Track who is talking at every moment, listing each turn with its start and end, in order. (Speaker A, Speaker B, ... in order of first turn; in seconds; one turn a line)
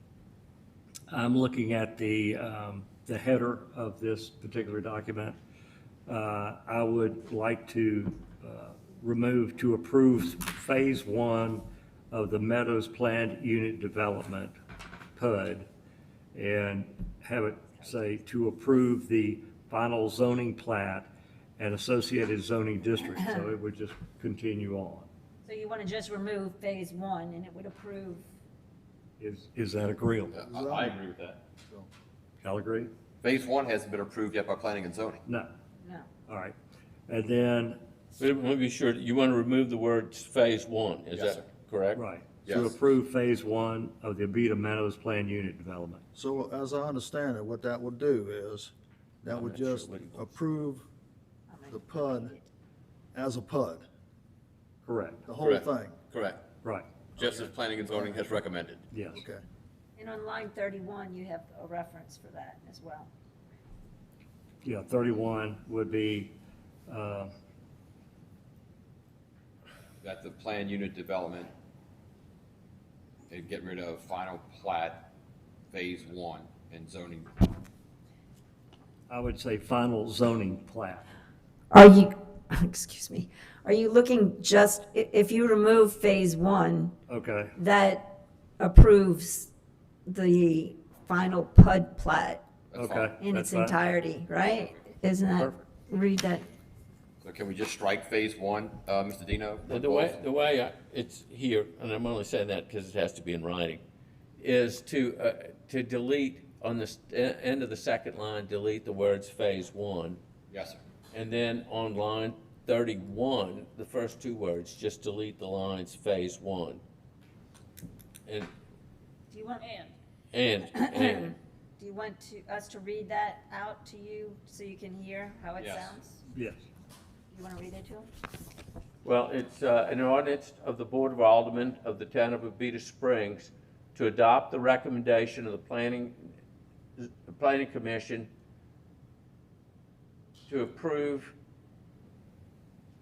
Speaker A: 1.1-5.4
Speaker A: 6.1-14.6
Speaker A: 15.2-15.7
Speaker A: 16.3-25.1
Speaker B: 25.4-28.2
Speaker A: 29.2-30.4
Speaker C: 30.3-31.4
Speaker D: 30.4-31.0
Speaker D: 31.6-31.9
Speaker A: 32.4-32.9
Speaker C: 33.2-35.2
Speaker A: 35.2-35.5
Speaker B: 35.8-36.2
Speaker A: 36.2-36.5
Speaker A: 37.1-37.8
Speaker E: 38.2-42.0
Speaker C: 41.1-41.5
Speaker A: 41.9-46.0
Speaker C: 42.4-42.7
Speaker D: 46.1-50.9
Speaker E: 49.3-50.3
Speaker B: 51.5-52.4
Speaker D: 51.7-52.3
Speaker D: 53.1-53.8
Speaker A: 54.8-55.3
Speaker D: 55.2-56.0
Speaker C: 55.4-56.5
Speaker C: 57.2-58.9
Speaker D: 57.2-58.2
Speaker A: 58.9-59.2
Speaker D: 59.1-59.4
Speaker B: 60.0-63.1
Speaker A: 64.6-67.3
Speaker C: 70.0-71.5
Speaker C: 73.3-75.1
Speaker C: 75.7-77.5
Speaker A: 79.1-81.1
Speaker B: 81.7-86.9
Speaker A: 87.1-87.5
Speaker B: 87.5-89.5
Speaker B: 90.0-92.4
Speaker C: 92.7-93.2
Speaker A: 92.7-93.8
Speaker B: 93.2-96.5
Speaker C: 94.5-94.8
Speaker C: 97.2-100.2
Speaker E: 99.6-103.8
Speaker E: 104.4-110.2
Speaker C: 110.5-110.8
Speaker E: 111.1-116.8
Speaker B: 119.3-119.9
Speaker E: 120.3-121.3
Speaker B: 120.8-126.2
Speaker C: 125.5-126.0
Speaker A: 126.3-126.6
Speaker B: 127.3-128.1
Speaker E: 129.0-136.3
Speaker E: 137.0-138.3
Speaker E: 140.5-141.3